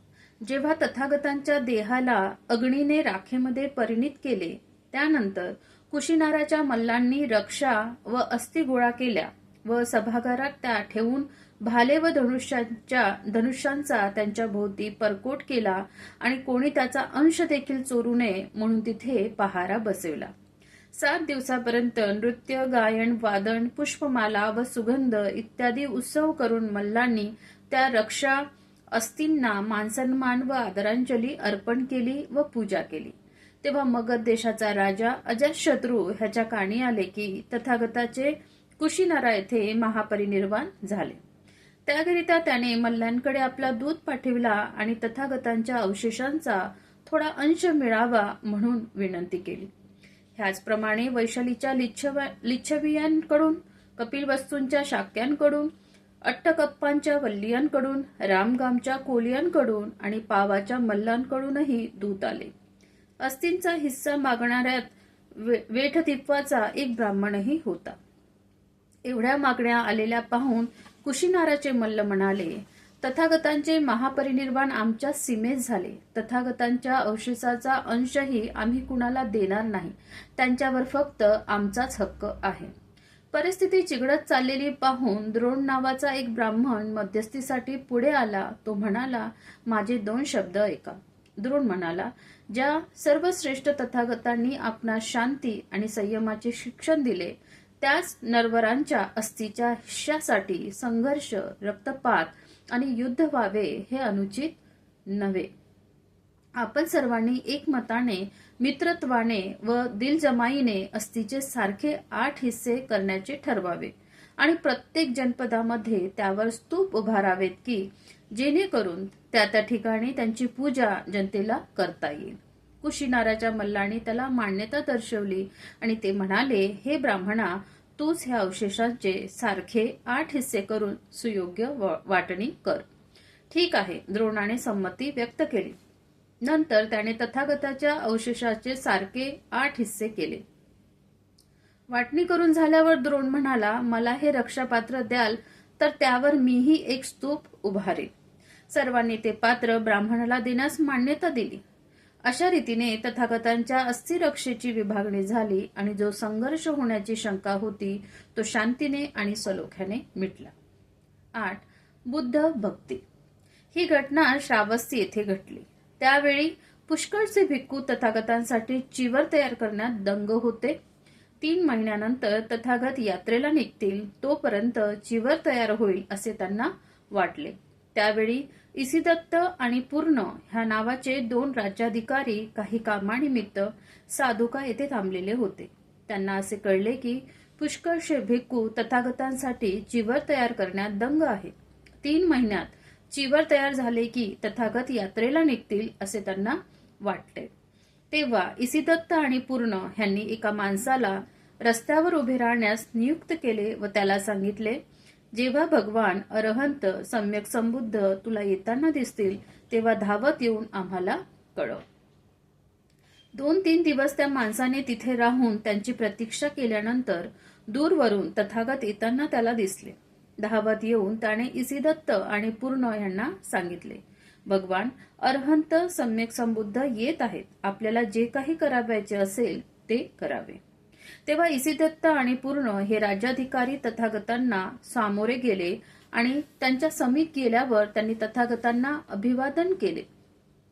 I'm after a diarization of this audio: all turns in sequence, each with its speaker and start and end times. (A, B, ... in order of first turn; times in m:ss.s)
0:00.4-0:20.3 A
0:20.9-0:41.2 A
0:41.8-0:49.7 A
0:50.4-0:55.7 A
0:56.2-1:02.5 A
1:03.2-1:08.0 A
1:09.0-1:22.7 A
1:23.3-1:44.6 A
1:45.1-1:45.5 A
1:46.6-2:12.8 A
2:13.5-2:15.8 A
2:16.4-2:20.4 A
2:21.9-2:28.1 A
2:28.7-2:31.6 A
2:32.2-2:40.5 A
2:41.4-2:43.0 A
2:43.7-2:50.8 A
2:51.4-3:17.5 A
3:18.1-3:24.8 A
3:25.3-3:31.8 A
3:33.3-3:50.6 A
3:51.2-4:00.0 A